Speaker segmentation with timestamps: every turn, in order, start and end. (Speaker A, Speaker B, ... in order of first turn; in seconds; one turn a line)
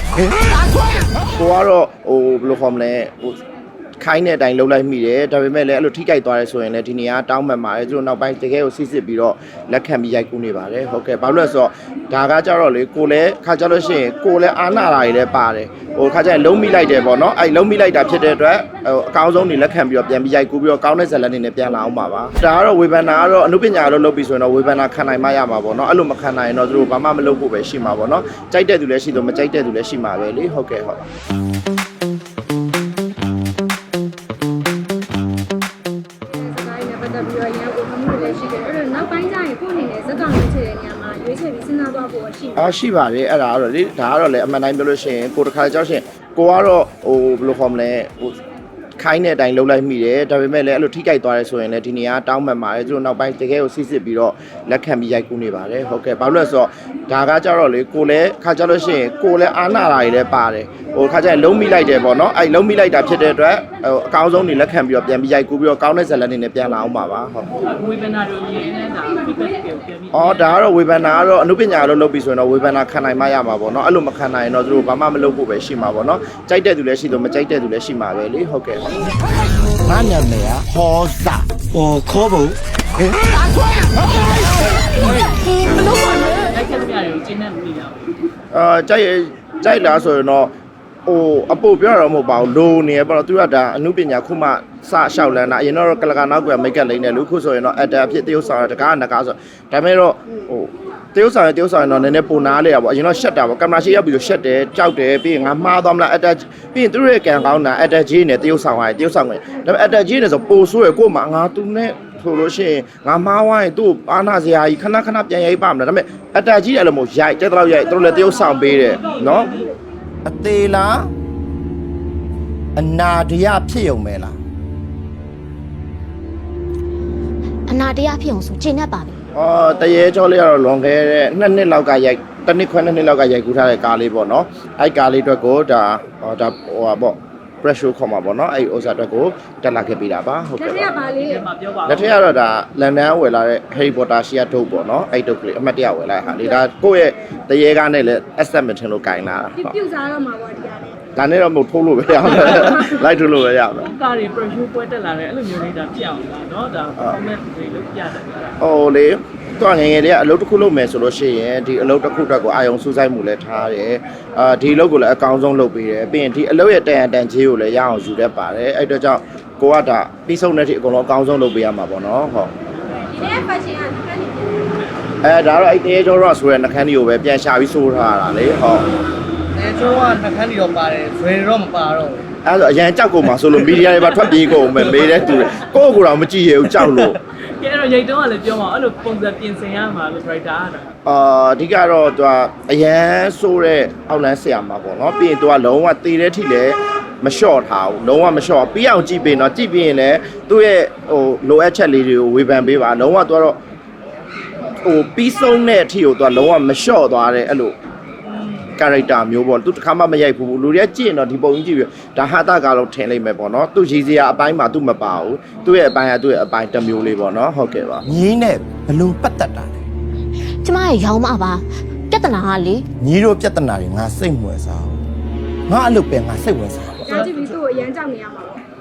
Speaker A: 1.4-3.4
Speaker A: 4.0-31.1
Speaker B: 36.3-42.8
Speaker A: 42.6-48.4
Speaker A: 49.0-67.5
Speaker C: 67.6-70.6
Speaker A: 70.1-79.0
Speaker D: 79.9-82.6
Speaker C: 85.5-88.1
Speaker A: 88.5-90.5
Speaker A: 91.1-119.6
Speaker A: 120.2-121.1
Speaker A: 122.8-124.4
Speaker E: 127.7-129.1
Speaker A: 129.3-140.9
Speaker B: 140.6-141.4
Speaker C: 141.2-142.2
Speaker A: 141.9-149.8
Speaker B: 149.6-151.1
Speaker A: 151.2-153.9
Speaker C: 153.8-158.6
Speaker A: 158.6-172.5
Speaker B: 173.3-174.3
Speaker A: 175.2-178.9
Speaker F: 179.5-182.2
Speaker A: 182.4-187.2
Speaker C: 187.6-190.9
Speaker A: 191.1-203.6
Speaker A: 204.8-207.8
Speaker A: 208.8-219.7
Speaker D: 218.1-219.5
Speaker E: 220.6-222.8
Speaker A: 223.0-224.9
Speaker D: 225.7-226.3
Speaker A: 226.1-227.3
Speaker B: 227.1-228.6